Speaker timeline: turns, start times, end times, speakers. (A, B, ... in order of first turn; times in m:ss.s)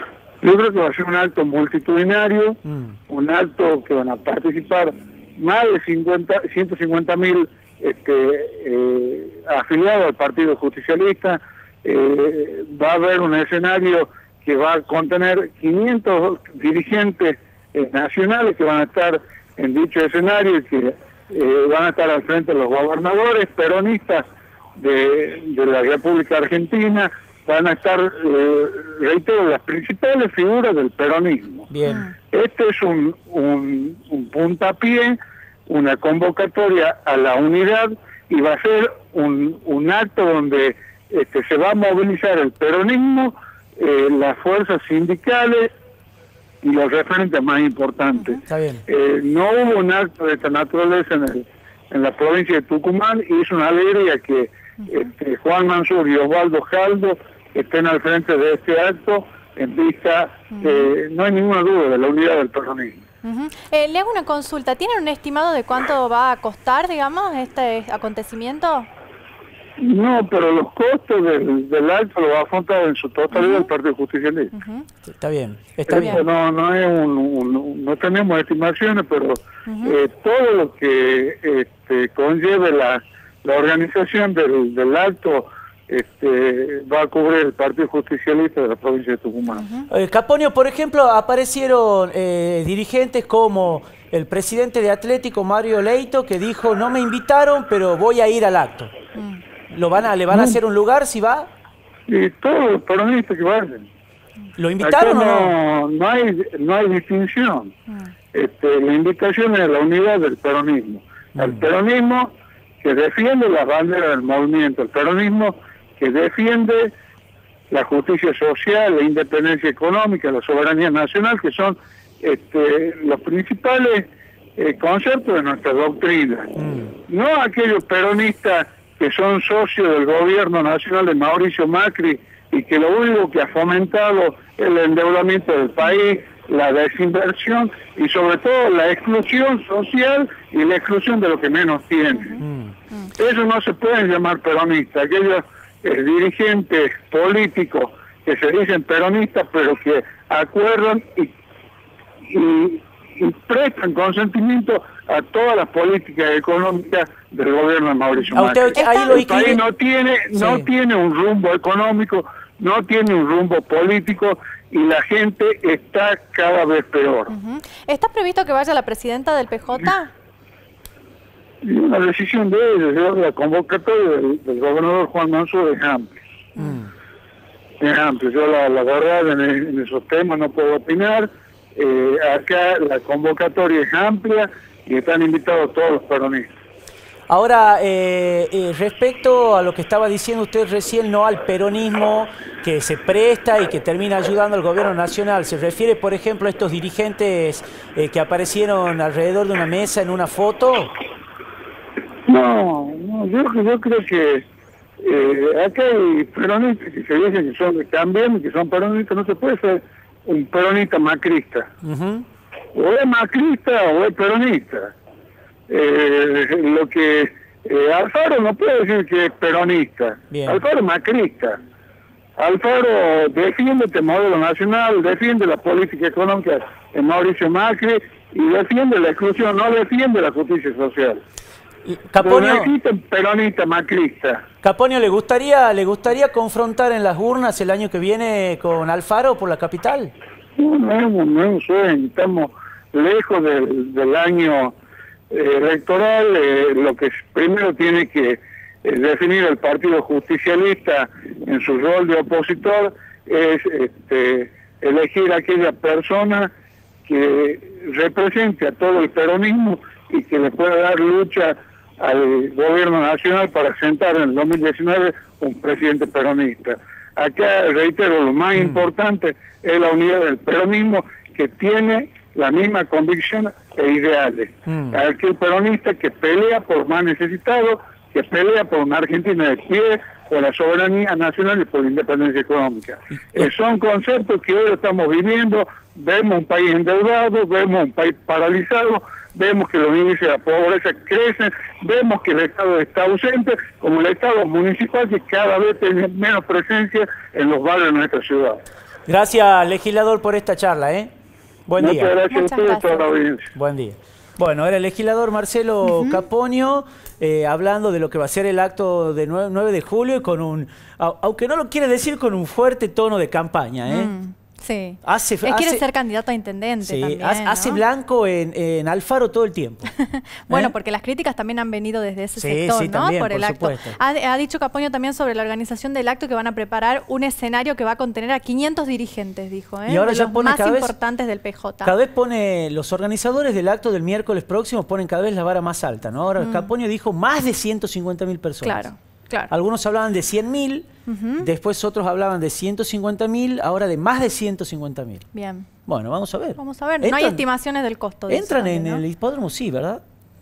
0:00.4-0:24.2 A
0:02.7-0:03.0 B
0:24.8-0:31.7 A
0:31.7-0:32.1 B
0:32.3-0:45.7 A
0:46.6-1:03.0 A
0:48.5-0:48.8 B
1:00.5-1:00.9 C
1:03.2-1:08.9 C
1:09.8-1:14.5 A
1:13.3-1:13.7 C
1:14.5-1:14.9 C
1:15.1-1:16.2 B
1:15.9-1:29.6 A
1:19.7-1:20.0 C
1:29.6-1:29.9 C
1:29.9-1:38.9 B
1:39.2-1:39.4 C
1:39.7-1:41.5 B
1:40.3-1:40.6 A
1:42.1-1:43.9 A
1:44.6-1:45.5 B
1:44.8-1:47.7 A
1:48.3-1:56.9 A
1:51.4-1:51.6 B
1:57.7-2:06.5 A
2:06.6-2:06.9 B
2:07.1-2:22.4 A
2:22.2-2:23.1 C
2:22.4-2:22.7 B
2:23.2-2:31.3 A
2:32.3-2:47.3 A
2:38.3-2:39.6 B
2:38.7-2:39.1 C
2:40.3-2:40.7 B
2:47.3-2:50.1 C
2:51.6-2:56.2 A
2:56.6-2:56.9 B
2:57.8-3:06.5 A
3:07.3-3:20.9 B
3:22.3-3:24.4 A
3:25.0-3:31.7 A
3:31.8-3:32.2 B
3:32.7-3:34.9 A
3:35.7-3:41.6 A
3:40.3-3:40.6 B
3:42.4-3:51.2 A
3:51.8-3:52.7 B
3:52.2-3:54.4 A
3:54.6-4:00.1 B
4:00.6-4:04.8 A
4:05.3-4:16.5 A
4:17.0-4:58.6 A
4:28.5-4:28.8 B
4:34.7-4:35.0 B
4:59.1-5:01.1 B
5:01.7-5:02.1 B
5:01.8-5:03.5 A
5:02.3-5:03.1 C
5:03.5-5:14.1 B
5:05.8-5:06.2 C
5:13.9-5:17.8 C
5:15.0-5:15.8 B
5:16.8-5:19.9 B
5:20.4-5:31.9 C
5:22.4-5:24.0 B
5:29.9-5:30.9 B
5:31.8-5:38.9 B
5:36.4-5:36.7 C
5:38.6-5:39.5 C
5:39.5-5:40.9 B
5:41.1-5:41.5 C
5:41.4-5:45.2 B
5:45.3-5:45.7 C
5:45.8-5:47.4 B
5:46.6-5:49.0 C
5:48.3-5:50.0 B